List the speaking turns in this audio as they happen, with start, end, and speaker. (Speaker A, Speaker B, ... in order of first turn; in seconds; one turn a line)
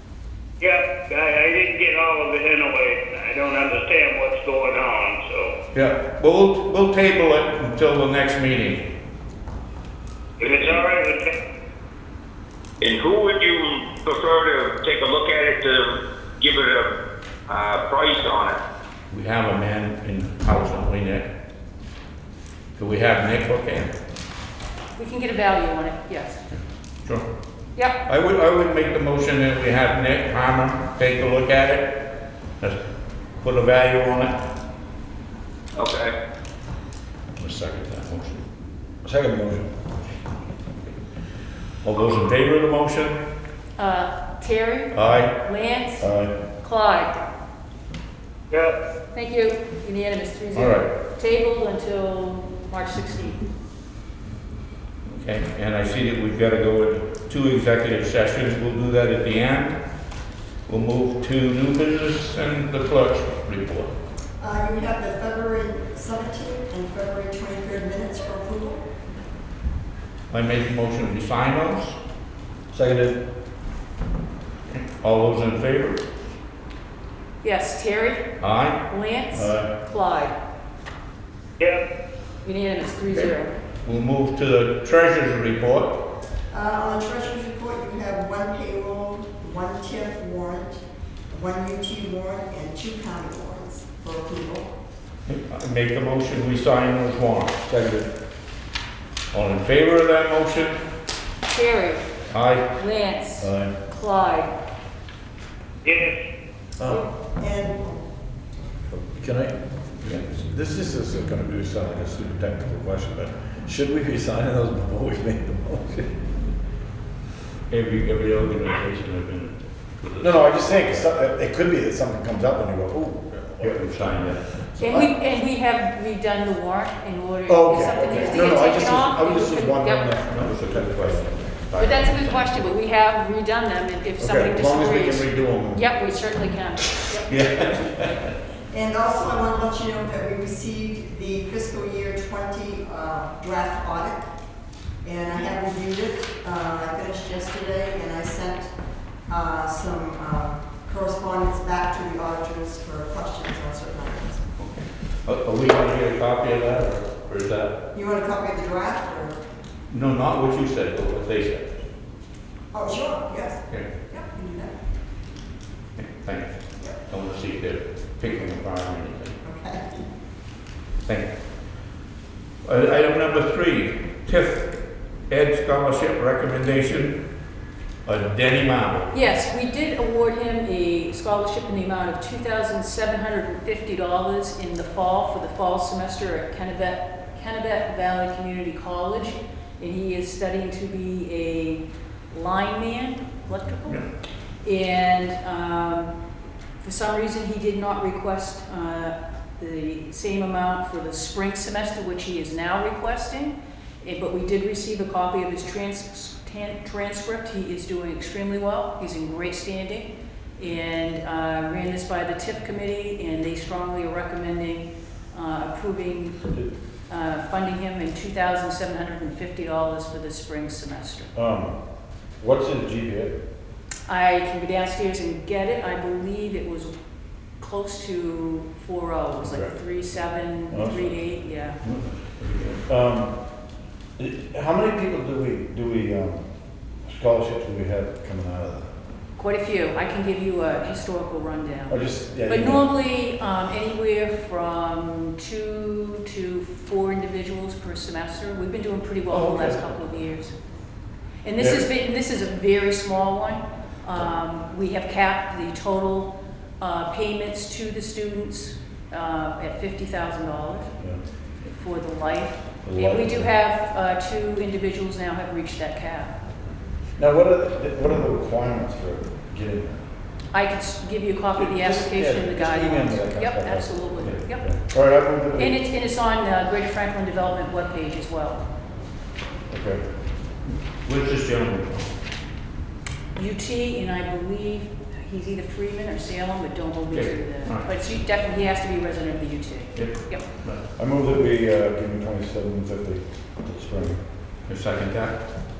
Speaker A: 0.6-5.5
Speaker B: 5.7-8.8
Speaker A: 10.4-11.3
Speaker C: 12.8-16.9
Speaker C: 17.5-18.6
Speaker B: 19.1-21.3
Speaker B: 22.8-23.9
Speaker D: 24.9-26.4
Speaker B: 26.5-27.2
Speaker B: 28.1-31.9
Speaker B: 33.4-34.3
Speaker C: 35.8-36.1
Speaker B: 37.4-38.4
Speaker E: 39.0-39.7
Speaker B: 41.8-43.2
Speaker D: 43.8-47.2
Speaker B: 44.9-45.3
Speaker E: 46.0-46.4
Speaker A: 48.5-48.8
Speaker D: 49.1-53.4
Speaker B: 50.5-50.9
Speaker B: 55.0-59.8
Speaker B: 60.6-63.9
Speaker F: 64.4-69.1
Speaker B: 70.3-72.0
Speaker E: 72.7-73.2
Speaker B: 74.7-76.0
Speaker D: 77.4-78.3
Speaker B: 78.4-78.8
Speaker D: 78.8-80.3
Speaker E: 79.3-79.7
Speaker D: 82.4-83.5
Speaker B: 83.8-86.0
Speaker F: 86.5-94.7
Speaker B: 95.3-97.6
Speaker E: 97.7-98.1
Speaker B: 99.3-100.8
Speaker D: 101.5-102.1
Speaker B: 102.3-102.7
Speaker D: 102.7-104.5
Speaker E: 103.4-103.8
Speaker A: 105.8-106.2
Speaker E: 106.8-107.1
Speaker D: 106.8-107.1
Speaker F: 107.4-108.0
Speaker E: 108.9-116.1
Speaker B: 110.0-110.4
Speaker B: 117.7-121.1
Speaker E: 120.2-125.1
Speaker B: 123.6-124.6
Speaker D: 124.8-130.2
Speaker E: 127.5-131.3
Speaker B: 130.2-132.7
Speaker D: 131.8-137.3
Speaker E: 134.2-135.8
Speaker B: 137.3-138.3
Speaker F: 138.7-144.2
Speaker F: 145.0-148.7
Speaker F: 149.3-154.5
Speaker B: 154.6-157.7
Speaker F: 157.9-159.4
Speaker B: 159.9-161.8
Speaker F: 162.7-164.7
Speaker B: 166.0-169.4
Speaker F: 169.4-170.0
Speaker B: 171.0-171.3
Speaker B: 172.6-174.7
Speaker B: 175.3-177.2
Speaker B: 178.0-179.1
Speaker D: 179.1-194.0
Speaker D: 194.6-196.1
Speaker D: 196.8-216.5
Speaker D: 217.1-221.3
Speaker E: 221.3-221.8
Speaker E: 222.4-223.4
Speaker D: 224.1-226.9
Speaker D: 227.6-231.8
Speaker E: 229.4-229.7
Speaker E: 230.7-231.3
Speaker B: 231.8-232.8
Speaker E: 232.8-233.3
Speaker E: 234.2-236.5
Speaker E: 237.0-238.9
Speaker D: 239.3-250.5
Speaker E: 241.9-242.8
Speaker E: 249.3-250.0
Speaker D: 251.4-260.9
Speaker E: 251.6-251.8
Speaker D: 261.6-266.3
Speaker E: 262.8-263.5
Speaker E: 267.2-270.0
Speaker D: 270.5-274.8
Speaker E: 271.5-275.8
Speaker D: 275.5-278.6
Speaker E: 279.7-280.0
Speaker B: 280.6-282.1
Speaker D: 283.3-290.5
Speaker B: 287.1-287.9
Speaker B: 289.9-290.8
Speaker E: 290.9-294.2
Speaker B: 294.6-295.4